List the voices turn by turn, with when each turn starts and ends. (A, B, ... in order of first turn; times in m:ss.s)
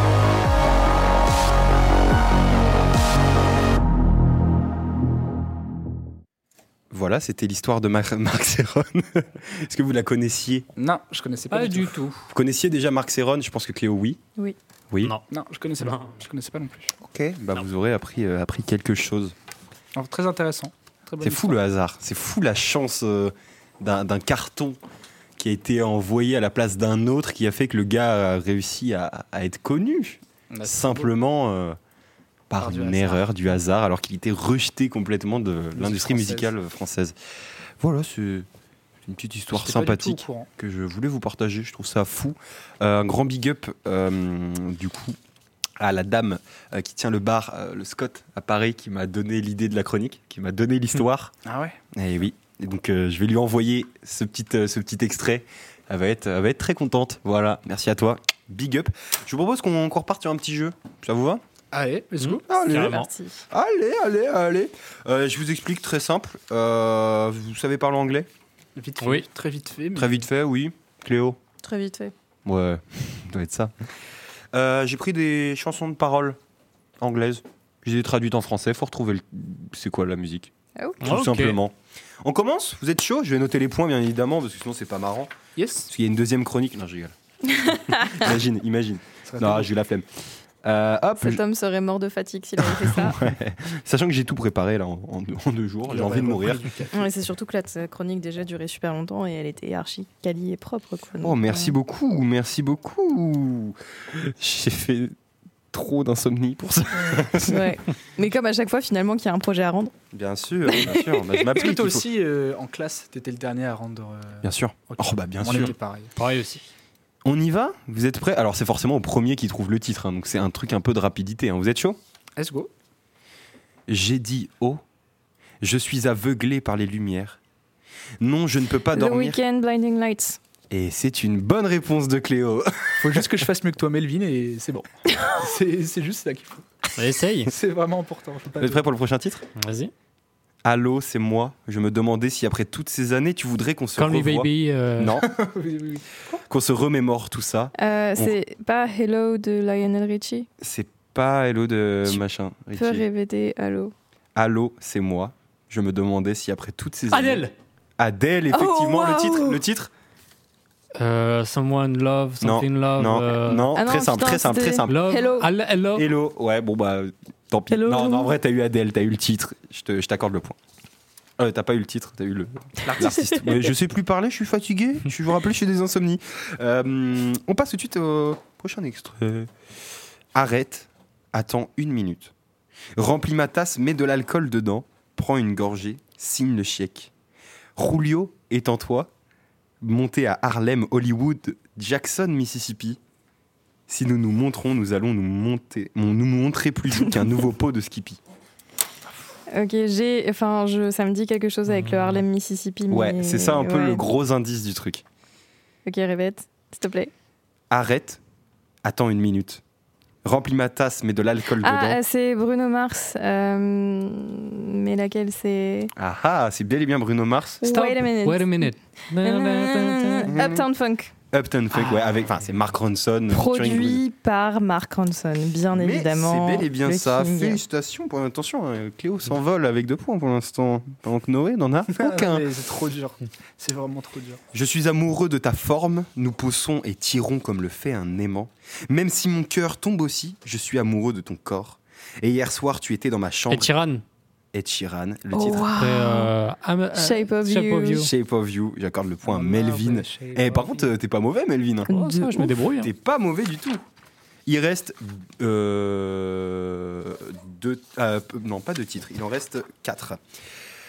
0:06.9-0:10.7 A
0:10.8-0:12.1 B
0:11.5-0:12.2 C
0:12.3-0:14.2 A
0:15.3-0:16.9 B
0:15.8-0:16.2 C
0:17.0-0:19.4 A
0:20.0-0:21.6 B
0:21.2-0:24.8 A
0:25.4-0:31.8 A
0:30.5-0:31.1 B
0:32.5-0:37.2 A
0:32.6-0:33.3 B
0:35.8-0:36.5 B
0:37.8-0:38.5 A
0:39.0-0:45.2 A
0:39.5-0:40.5 B
0:45.8-0:51.4 A
0:51.5-0:51.8 B
0:51.9-1:01.4 A
1:01.7-1:02.4 B
1:02.2-1:03.1 C
1:02.5-1:08.3 A
1:02.7-1:03.4 D
1:08.8-1:10.3 B
1:10.0-1:11.4 A
1:11.6-1:12.1 D
1:12.4-1:13.7 A
1:14.5-1:16.4 A
1:17.0-1:25.3 A
1:21.0-1:21.6 C
1:25.6-1:25.9 B
1:25.9-1:30.1 A
1:27.6-1:28.2 D
1:29.3-1:29.7 B
1:30.6-1:31.4 A
1:31.2-1:33.2 D
1:32.6-1:36.7 A
1:35.9-1:37.1 B
1:36.9-1:41.8 D
1:41.2-1:45.2 A
1:45.7-1:47.8 A
1:47.4-1:49.9 D
1:50.1-1:52.1 A
1:50.7-1:51.5 D
1:51.5-1:56.1 B
1:54.4-1:55.8 A
1:56.2-1:56.7 C
1:57.2-2:02.0 A
2:02.4-2:02.7 B
2:03.9-2:04.8 A
2:05.6-2:07.4 A
2:08.2-2:09.4 A
2:08.9-2:10.4 D
2:10.7-2:13.3 A
2:13.0-2:16.9 B
2:17.0-2:17.5 C
2:17.5-2:18.8 B
2:18.6-2:19.4 A
2:19.6-2:19.9 C
2:20.6-2:25.3 A
2:24.0-2:25.2 C
2:25.2-2:26.4 B
2:26.5-2:28.4 A
2:27.8-2:30.5 D
2:30.6-2:33.0 A
2:32.8-2:33.9 D
2:34.4-2:39.9 A
2:37.1-2:37.5 C
2:38.5-2:39.6 D
2:41.0-2:43.7 C
2:42.4-2:45.1 A
2:43.8-2:45.5 D
2:44.9-2:46.1 C
2:45.9-2:50.6 A
2:47.7-2:48.3 D
2:51.4-2:59.5 A
2:52.9-2:53.4 D
2:52.9-2:53.2 B
3:00.3-3:02.3 A
3:03.0-3:07.1 A
3:07.8-3:09.1 A
3:09.8-3:13.0 A
3:13.9-3:18.2 A
3:19.5-3:24.1 D
3:21.7-3:22.2 C
3:22.9-3:25.0 A
3:25.8-3:27.1 D
3:27.7-3:28.2 A
3:28.8-3:29.6 A
3:30.2-3:32.0 A
3:31.6-3:35.9 D
3:36.0-3:37.6 A
3:37.6-3:41.1 D
3:37.6-3:40.3 C
3:40.3-3:40.7 A
3:41.3-3:44.0 A
3:41.7-3:42.4 C
3:43.3-3:47.6 D
3:45.7-3:52.5 A
3:51.9-3:54.4 B
3:54.5-4:03.7 A
4:03.5-4:04.0 C
4:04.5-4:05.8 A
4:05.3-4:06.3 D
4:05.8-4:08.1 C
4:07.0-4:08.1 D
4:08.0-4:12.1 A
4:09.2-4:10.9 B
4:11.9-4:12.9 C
4:11.9-4:12.5 D
4:12.8-4:13.8 A
4:14.5-4:20.2 A